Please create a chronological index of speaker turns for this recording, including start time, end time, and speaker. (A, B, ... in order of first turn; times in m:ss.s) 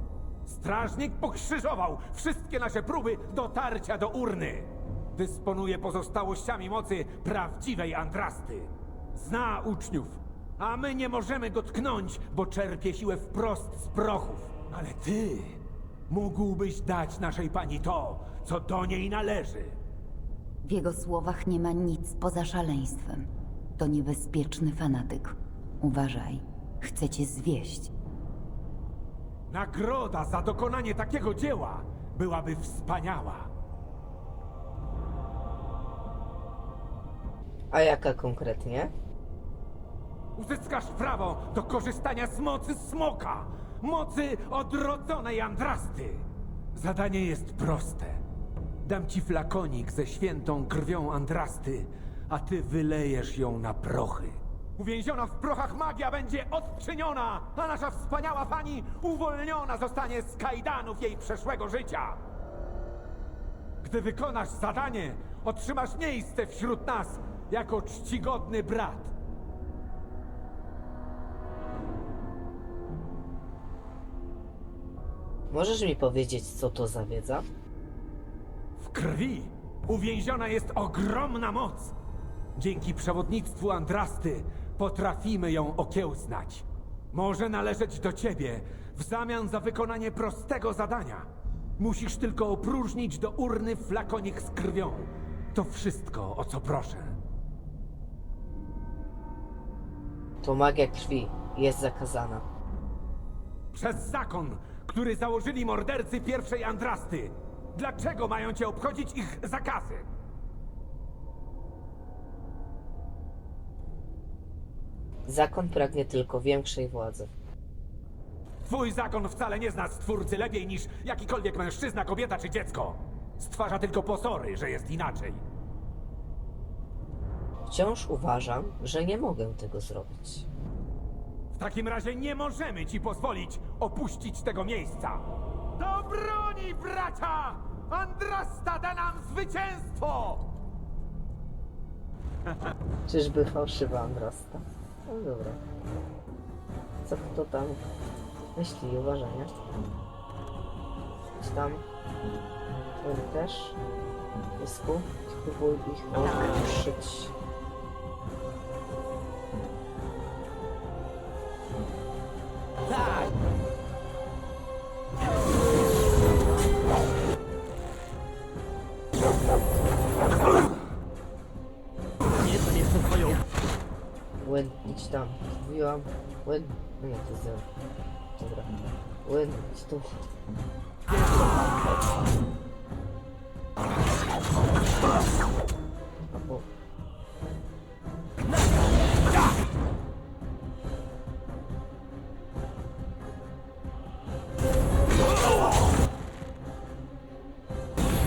0:00.4-0:19.8 A
0:20.6-0:27.9 B
0:29.5-0:33.5 A
0:37.7-0:38.9 C
0:40.4-0:48.2 A
0:48.8-1:02.2 A
1:03.8-1:09.1 A
1:15.5-1:17.4 C
1:18.8-1:21.9 A
1:22.6-1:37.2 A
1:40.4-1:42.4 C
1:43.7-1:50.0 A
1:55.3-1:57.3 C
1:58.6-2:05.4 A
2:07.7-2:10.5 C
2:11.5-2:15.2 A
2:15.8-2:20.5 A
2:23.1-2:25.6 C
2:27.0-2:27.8 C
2:28.6-2:29.5 C
2:31.4-2:31.8 C
2:33.0-2:33.8 C
2:34.6-2:37.3 C
2:54.4-2:57.6 C
2:58.4-2:58.7 C
2:59.2-3:00.1 C
3:06.3-3:06.7 C